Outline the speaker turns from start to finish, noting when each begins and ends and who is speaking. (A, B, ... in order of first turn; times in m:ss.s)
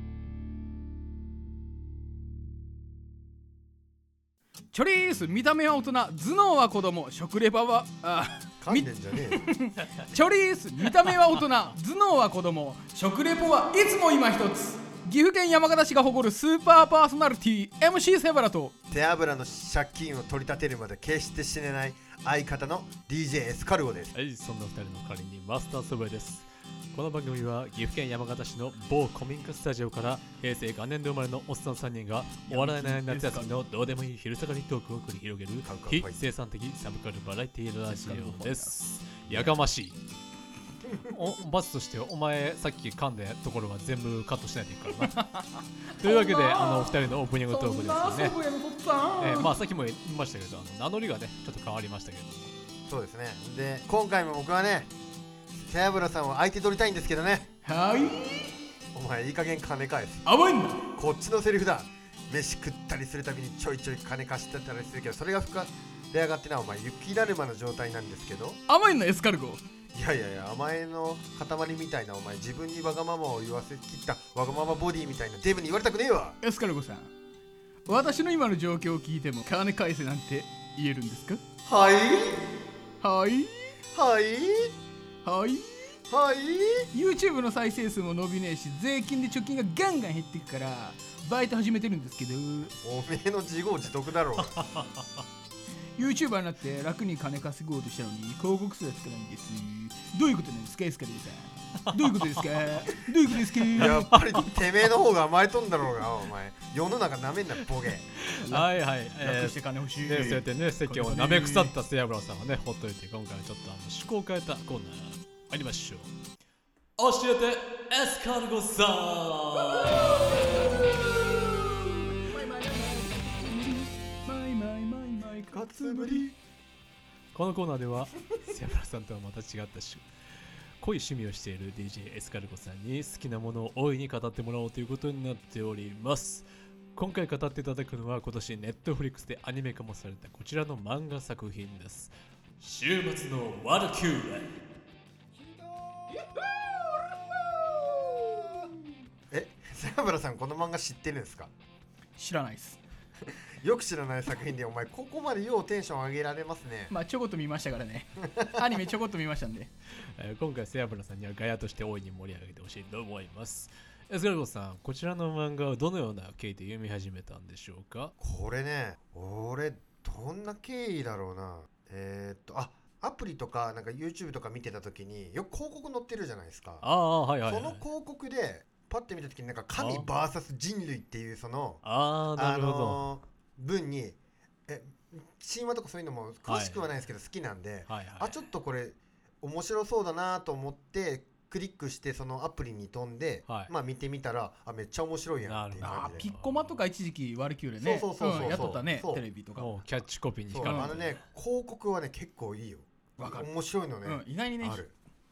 0:04.7-0:18.7 A
0:08.6-0:09.5 B
0:18.9-0:24.1 B
0:24.2-0:40.0 C
0:32.5-0:33.5 A
0:35.6-0:36.2 B
0:37.9-0:38.8 A
0:40.8-0:41.2 B
0:41.1-0:45.2 C
0:45.0-0:49.5 A
0:46.0-0:48.4 C
0:49.2-0:52.5 C
0:52.9-0:54.9 B
0:55.6-0:57.5 B
0:57.6-0:58.5 A
0:58.9-1:00.3 B
1:00.2-1:00.8 A
1:00.9-1:08.6 B
1:08.7-1:09.6 A
1:09.9-1:16.4 B
1:16.4-1:17.1 A
1:17.9-1:21.4 A
1:21.7-1:22.4 B
1:23.0-1:23.7 A
1:23.9-1:24.8 B
1:25.2-1:25.9 A
1:26.1-1:26.9 B
1:26.9-1:32.7 A
1:32.8-1:34.6 B
1:34.6-1:34.9 C
1:36.0-1:44.1 A
1:41.9-1:42.4 C
1:43.7-1:48.1 B
1:43.8-1:44.5 C
1:48.2-1:56.1 C
1:48.4-1:51.7 A
1:57.0-2:00.8 C
1:59.8-2:00.7 A
2:02.1-2:06.3 A
2:05.5-2:06.3 B
2:07.3-2:10.0 C
2:10.8-2:24.5 C
2:25.4-2:28.8 B
2:29.3-2:31.5 B
2:32.2-2:32.8 A
2:33.3-2:36.9 B
2:36.9-2:39.7 A
2:40.2-2:48.1 C
2:48.2-2:56.9 B
2:56.8-2:57.8 C
2:57.4-3:01.8 B
2:59.8-3:00.1 C
3:01.8-3:03.0 C
3:02.4-3:16.2 B
3:06.5-3:06.8 C
3:07.9-3:08.3 C
3:15.4-3:16.7 C
3:15.8-3:19.8 A
3:17.8-3:19.2 B
3:18.4-3:18.7 C
3:19.6-3:21.2 C
3:20.5-3:24.9 B
3:20.6-3:21.0 A
3:23.2-3:23.5 A
3:24.0-3:24.8 A